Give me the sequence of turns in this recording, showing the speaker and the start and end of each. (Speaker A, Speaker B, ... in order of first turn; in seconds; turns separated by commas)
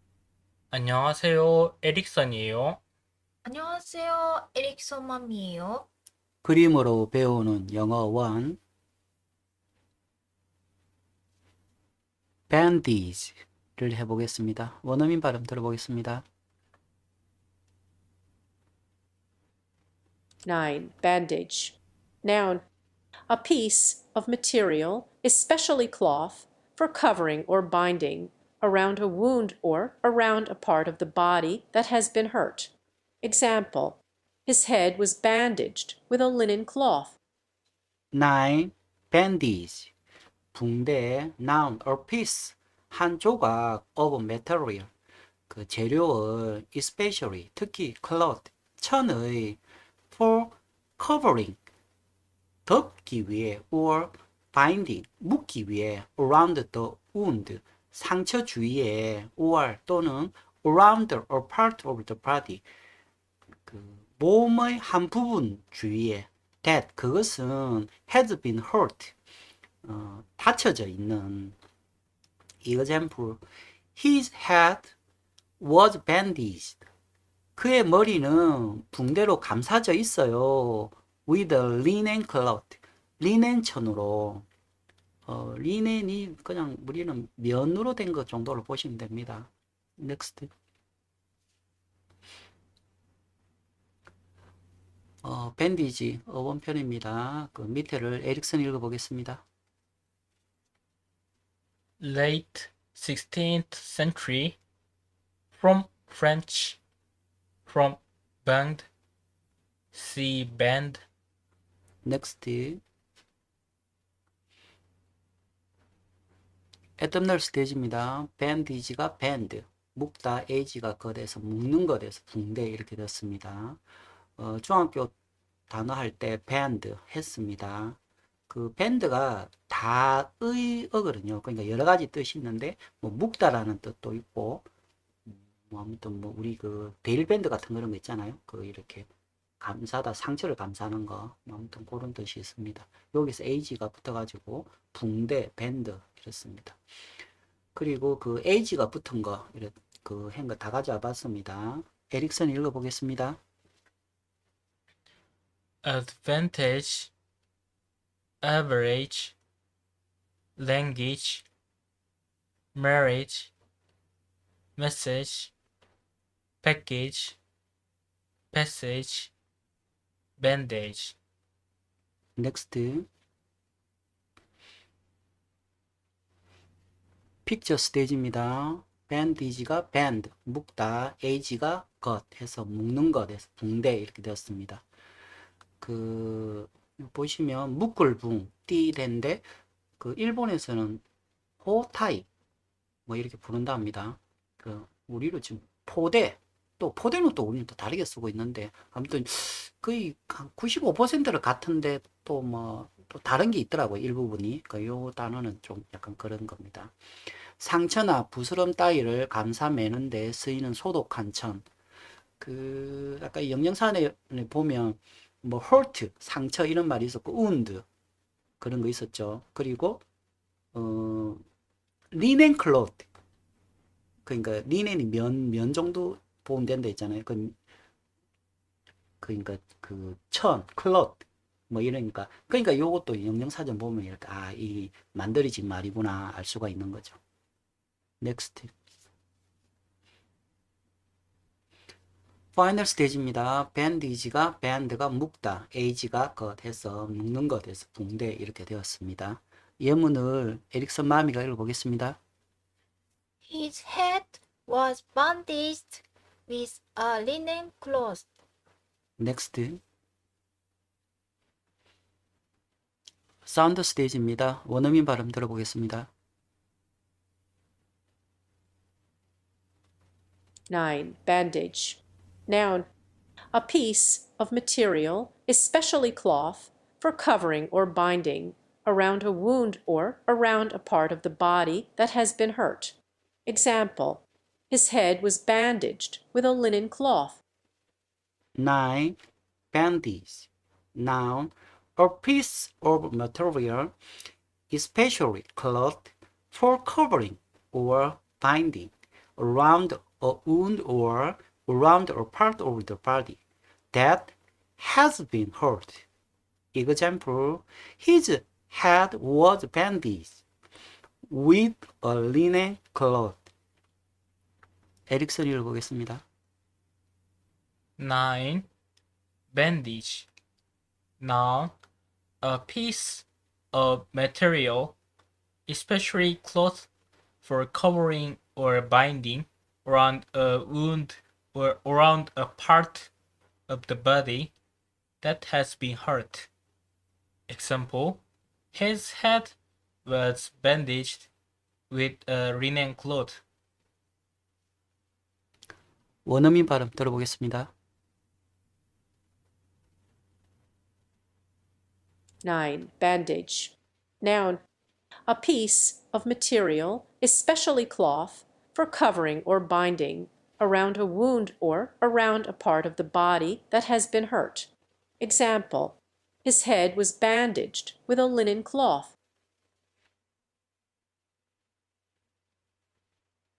Speaker A: 0.7-2.8, Speaker B: 3.4-5.9, Speaker C: 6.4-8.6, Speaker C: 12.5-16.2, Speaker D: 20.4-22.6, Speaker D: 23.3-32.7, Speaker D: 33.2-37.1, Speaker C: 38.1-39.9, Speaker C: 40.5-44.9, Speaker C: 45.5-49.6, Speaker C: 50.1-51.6, Speaker C: 52.6-62.6, Speaker C: 63.6-69.1, Speaker C: 69.8-71.5, Speaker C: 72.6-73.4, Speaker C: 73.9-74.9, Speaker C: 75.6-76.8, Speaker C: 77.5-84.5, Speaker C: 85.2-90.5, Speaker C: 95.2-99.4, Speaker A: 102.0-104.6, Speaker A: 105.5-106.8, Speaker A: 107.7-108.9, Speaker A: 109.9-111.0, Speaker C: 112.0-112.8, Speaker C: 117.0-123.8, Speaker C: 124.4-125.1, Speaker C: 125.7-128.0, Speaker C: 128.5-134.6, Speaker C: 135.2-139.1, Speaker C: 139.6-146.8, Speaker C: 147.7-153.4, Speaker A: 155.8-157.1, Speaker A: 158.4-159.3, Speaker A: 160.6-161.4, Speaker A: 162.7-163.5, Speaker A: 164.8-165.5, Speaker A: 166.6-167.4, Speaker A: 168.5-169.3, Speaker A: 170.4-171.1, Speaker C: 172.4-173.1, Speaker C: 177.4-184.8, Speaker C: 185.8-189.4, Speaker C: 190.0-191.0, Speaker C: 191.6-192.3, Speaker C: 193.1-206.9, Speaker C: 207.6-211.6, Speaker C: 212.4-217.8, Speaker C: 218.6-220.0, Speaker C: 220.7-221.4, Speaker C: 222.1-223.1, Speaker C: 224.2-227.5, Speaker C: 229.2-237.2, Speaker C: 238.2-238.7, Speaker C: 242.6-252.2, Speaker B: 253.4-258.3, Speaker C: 259.2-259.8, Speaker C: 263.4-266.1, Speaker D: 270.7-272.9, Speaker D: 273.5-287.4, Speaker C: 288.6-289.2, Speaker C: 289.7-293.9, Speaker C: 294.7-303.4, Speaker C: 303.9-306.0, Speaker C: 306.7-310.4, Speaker C: 311.3-313.4, Speaker C: 315.1-316.2, Speaker A: 318.0-318.7, Speaker A: 319.5-320.3, Speaker A: 321.2-321.7, Speaker A: 322.4-324.9, Speaker A: 325.7-326.9, Speaker A: 327.4-333.1, Speaker A: 333.7-334.5, Speaker A: 335.2-336.5, Speaker A: 337.5-338.2, Speaker A: 338.7-341.3, Speaker A: 341.9-343.4, Speaker C: 346.2-347.7, Speaker D: 352.4-354.6, Speaker D: 355.3-364.7, Speaker D: 365.2-369.1